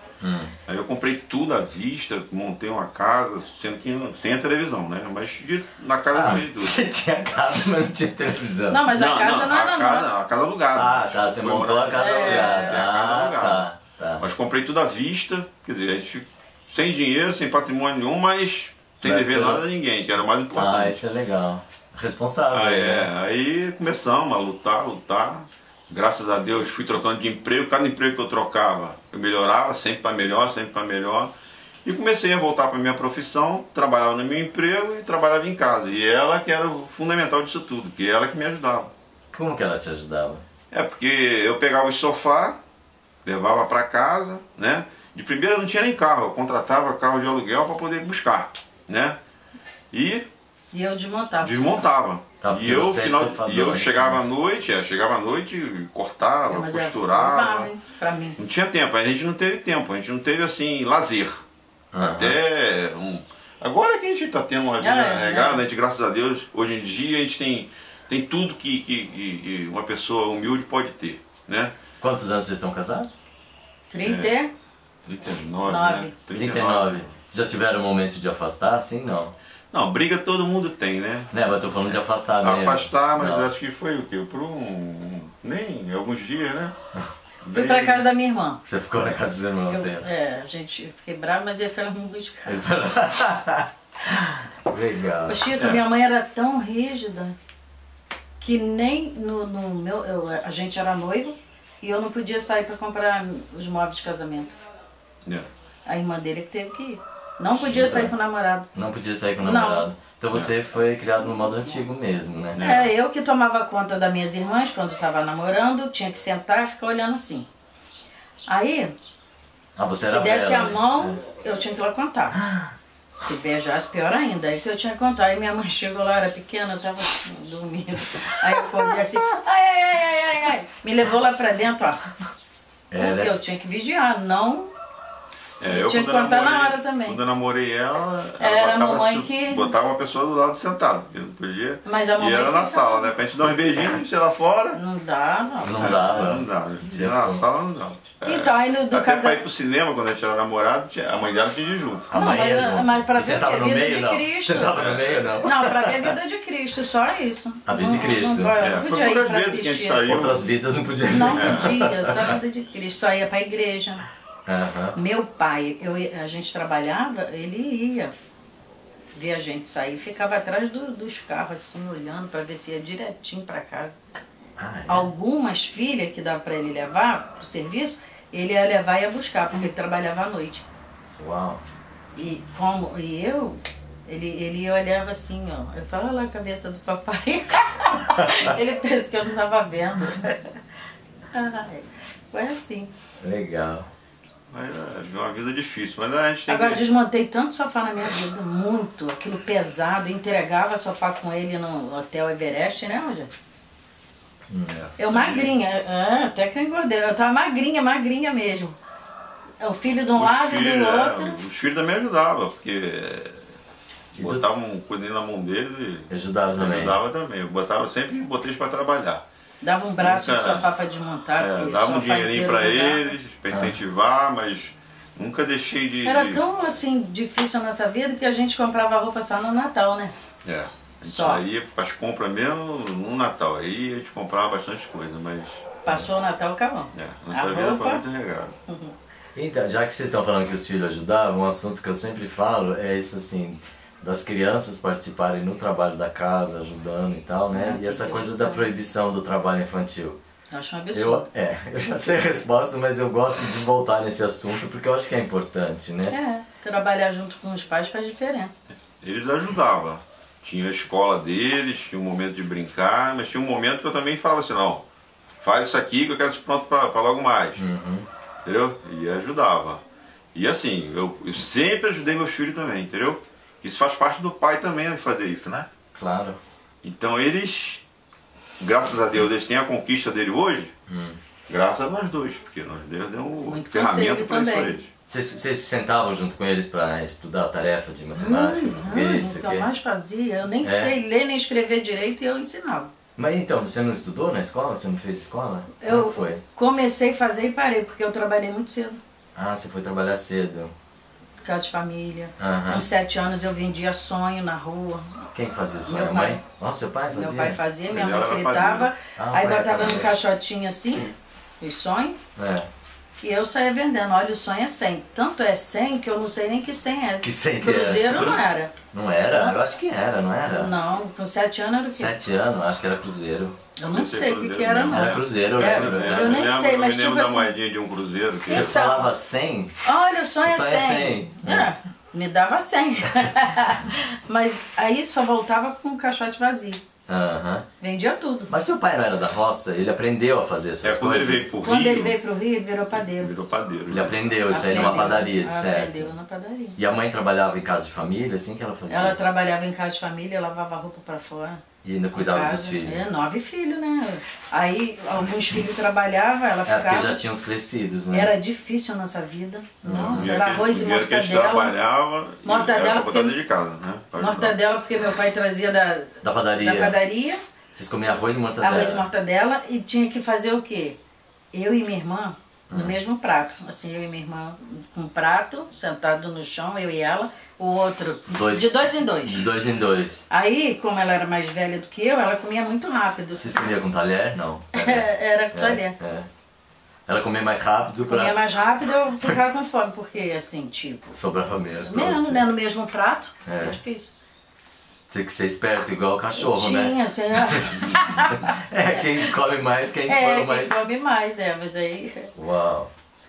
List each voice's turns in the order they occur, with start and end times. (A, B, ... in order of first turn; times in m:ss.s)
0:00.2-0:00.6 A
0:00.6-0:06.8 B
0:06.1-0:08.9 A
0:08.7-0:10.1 C
0:08.9-0:13.6 B
0:10.7-0:14.2 A
0:11.9-0:12.8 C
0:14.2-0:21.0 B
0:19.0-0:19.6 A
0:20.5-0:23.1 A
0:22.5-0:31.3 B
0:31.8-0:38.9 B
0:39.3-0:40.4 A
0:40.7-0:42.6 B
0:43.2-0:49.2 B
0:49.9-0:50.3 B
0:50.7-0:51.8 C
0:51.4-0:57.7 B
0:52.4-0:54.2 A
0:56.5-0:58.4 C
0:58.4-1:01.4 B
1:01.9-1:02.4 A
1:02.0-1:11.7 B
1:04.8-1:05.6 C
1:12.0-1:13.1 A
1:13.9-1:14.5 C
1:14.0-1:14.3 B
1:15.0-1:17.1 B
1:15.7-1:16.1 C
1:16.3-1:19.3 A
1:19.7-1:21.3 B
1:21.3-1:23.5 A
1:22.4-1:26.7 B
1:27.4-1:28.0 B
1:27.5-1:28.6 C
1:28.6-1:30.1 A
1:29.7-1:32.6 C
1:32.4-1:35.5 A
1:35.3-1:37.3 C
1:38.4-1:44.5 C
1:45.8-1:48.7 C
1:47.6-1:48.1 A
1:48.7-1:52.7 A
1:49.4-1:49.9 C
1:52.5-1:52.9 B
1:52.6-1:57.5 C
1:58.5-1:58.9 C
1:59.8-2:01.2 A
2:00.0-2:02.4 C
2:02.4-2:02.7 A
2:03.1-2:12.0 C
2:12.9-2:13.3 A
2:13.0-2:14.7 C
2:15.6-2:24.8 B
2:15.7-2:17.2 C
2:18.4-2:19.7 C
2:21.8-2:23.1 C
2:24.7-2:25.9 C
2:25.6-2:27.4 A
2:25.8-2:32.1 B
2:28.2-2:29.4 C
2:32.1-2:36.1 A
2:32.1-2:34.8 C
2:34.8-2:35.3 B
2:35.4-2:40.2 C
2:37.6-2:38.6 A
2:38.0-2:40.4 B
2:40.0-2:42.3 A
2:41.1-2:44.0 C
2:41.3-2:41.7 B
2:44.5-2:45.0 A
2:45.0-2:48.1 C
2:49.1-2:54.0 C
2:54.6-2:55.1 A
2:54.9-3:00.6 C
3:01.2-3:01.6 A
3:02.2-3:10.4 C
3:08.2-3:08.5 A
3:11.3-3:12.9 C
3:13.2-3:13.9 A
3:14.5-3:16.8 B
3:16.5-3:23.3 C
3:24.5-3:24.8 A
3:24.7-3:25.5 B
3:25.0-3:28.8 C
3:29.6-3:31.4 C
3:30.2-3:33.5 B
3:34.1-3:39.2 B
3:34.1-3:34.4 A
3:36.1-3:37.0 A
3:39.6-3:43.0 C
3:40.0-3:40.7 B
3:41.4-3:46.4 B
3:43.5-3:43.8 A
3:46.0-3:50.1 C
3:50.4-3:55.6 B
3:51.0-3:51.4 C
3:55.8-3:58.0 C
3:56.9-3:58.5 B
3:58.7-3:58.9 C
3:59.3-4:10.2 A
4:07.5-4:08.7 C
4:10.5-4:11.3 C
4:10.9-4:16.2 A
4:16.1-4:18.6 C
4:19.0-4:24.8 B
4:25.4-4:27.6 B
4:27.6-4:28.1 A
4:28.4-4:29.8 B
4:30.3-4:35.7 B
4:35.9-4:36.4 A
4:36.8-4:37.8 B
4:38.6-4:40.7 B
4:40.9-4:41.2 A
4:41.5-4:44.9 B
4:43.4-4:44.8 C
4:45.1-4:49.7 A
4:48.2-4:52.9 C
4:50.6-4:50.9 A
4:53.2-4:56.4 A
4:55.8-4:59.0 C
4:59.4-5:00.7 A
5:01.4-5:05.2 C
5:02.4-5:02.8 A
5:05.3-5:07.6 A
5:05.9-5:06.4 C
5:07.1-5:12.2 C
5:07.9-5:08.9 B
5:09.2-5:10.1 A
5:12.4-5:12.7 A
5:13.2-5:18.7 C
5:17.2-5:18.4 A
5:18.9-5:20.7 A
5:19.3-5:19.6 C
5:20.5-5:22.1 C
5:21.9-5:23.6 A
5:23.8-5:27.5 C
5:23.9-5:28.7 B
5:24.9-5:26.5 A
5:28.5-5:29.1 C
5:28.5-5:29.7 A
5:29.8-5:36.8 C
5:30.4-5:31.7 A
5:37.1-5:37.6 A
5:37.8-5:38.5 C
5:38.5-5:41.5 A
5:40.8-5:42.2 B
5:41.6-5:43.3 C
5:43.1-5:45.1 B
5:43.9-5:46.1 A
5:44.5-5:46.8 C
5:46.8-5:49.2 A
5:48.9-5:51.6 C
5:51.8-5:53.0 A
5:52.2-5:57.2 C
5:56.7-5:58.3 A
5:58.1-6:01.8 C
5:59.8-6:00.3 A
6:00.1-6:04.6 B
6:02.4-6:03.3 C
6:04.2-6:07.4 C
6:06.2-6:07.0 A
6:07.7-6:09.1 A
6:08.6-6:11.0 C
6:11.5-6:19.4 C
6:12.7-6:13.0 A
6:18.3-6:18.7 A
6:19.2-6:20.2 A
6:20.3-6:23.7 C
6:23.4-6:26.3 A
6:24.7-6:25.9 C
6:27.1-6:28.4 A
6:28.1-6:31.1 C
6:31.1-6:32.4 A
6:31.8-6:34.1 C
6:33.4-6:33.8 A
6:35.1-6:40.8 A
6:36.4-6:38.6 C
6:40.1-6:42.3 C
6:42.3-6:42.9 A